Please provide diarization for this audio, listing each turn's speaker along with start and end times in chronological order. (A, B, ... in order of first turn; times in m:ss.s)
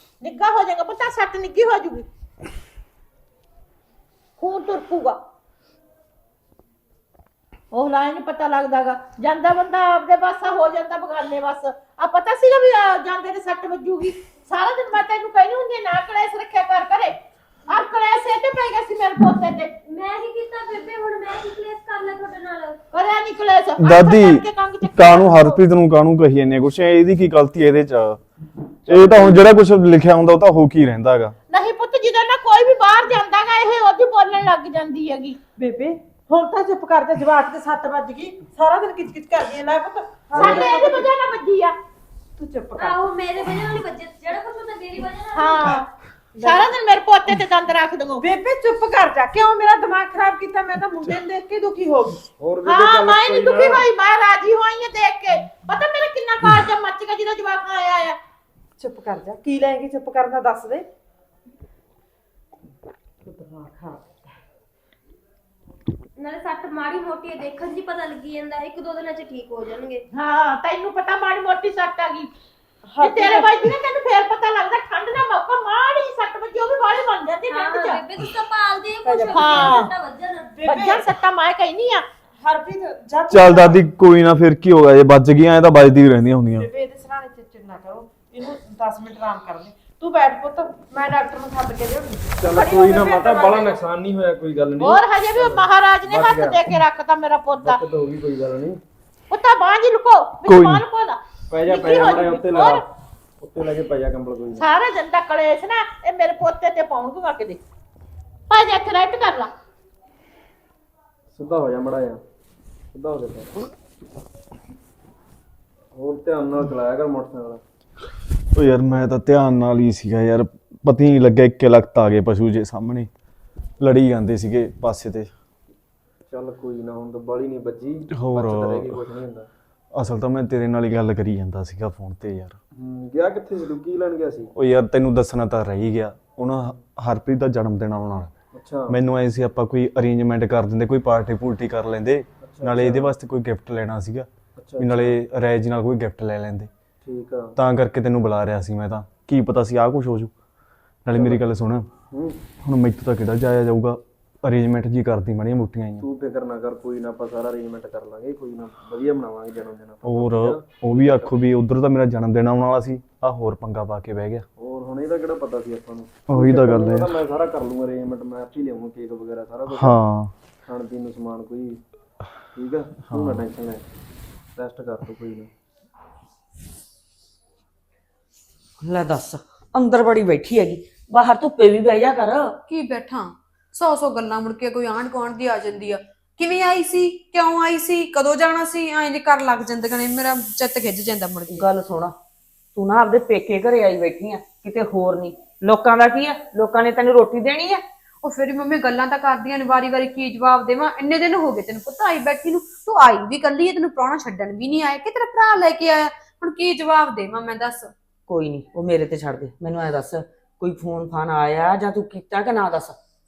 0:00.2-0:02.1 A
0:04.4-0:05.2 A
0:07.7-0:17.2 A
0:17.7-0:19.7 A
0:19.8-0:22.8 B
0:22.9-0:25.6 A
0:23.8-0:28.2 C
0:28.9-0:31.3 C
0:28.9-0:29.4 D
0:31.5-0:35.4 A
0:35.6-0:41.1 E
0:40.3-0:41.8 A
0:42.4-0:43.7 E
0:42.8-0:45.8 B
0:45.4-0:45.8 A
0:46.3-0:46.7 E
0:46.4-0:48.2 A
0:48.2-0:52.2 E
0:52.4-0:53.9 D
0:52.6-0:58.2 A
0:58.8-1:00.8 E
1:03.3-1:04.1 E
1:06.2-1:10.0 B
1:10.1-1:12.3 A
1:12.8-1:13.7 E
1:13.0-1:18.0 A
1:17.5-1:20.6 B
1:19.0-1:19.9 E
1:19.4-1:19.8 A
1:20.5-1:21.1 E
1:20.7-1:22.0 A
1:22.4-1:23.8 E
1:23.3-1:26.7 C
1:26.6-1:33.8 E
1:32.4-1:36.8 D
1:34.8-1:37.8 A
1:37.5-1:38.8 D
1:39.3-1:42.8 A
1:40.5-1:40.8 C
1:41.5-1:42.9 D
1:43.4-1:44.6 D
1:44.6-1:47.6 A
1:48.5-1:49.5 A
1:51.3-1:52.2 D
1:52.9-1:53.5 D
1:56.0-1:57.6 D
1:58.6-2:03.1 C
2:03.8-2:05.3 C
2:06.3-2:09.5 D
2:08.1-2:09.0 C
2:09.9-2:12.6 C
2:12.8-2:14.5 D
2:14.6-2:18.3 C
2:18.5-2:19.0 D
2:18.9-2:24.3 C
2:22.4-2:23.2 D
2:24.6-2:25.2 D
2:24.8-2:26.7 C
2:27.0-2:27.6 D
2:27.6-2:30.3 C
2:31.0-2:31.8 C
2:31.1-2:31.4 D
2:32.1-2:32.4 D
2:32.6-2:36.0 C
2:36.0-2:41.4 D
2:40.0-2:44.4 C
2:44.6-2:50.0 D
2:46.3-2:47.1 C
2:49.7-2:50.3 C
2:50.6-2:51.8 D
2:52.6-2:53.8 D
2:53.1-2:53.4 C
2:54.6-2:55.5 D
2:58.8-3:02.5 F
3:02.7-3:11.7 G
3:11.5-3:12.1 F
3:12.8-3:17.8 F
3:18.2-3:27.9 G
3:28.3-3:33.0 F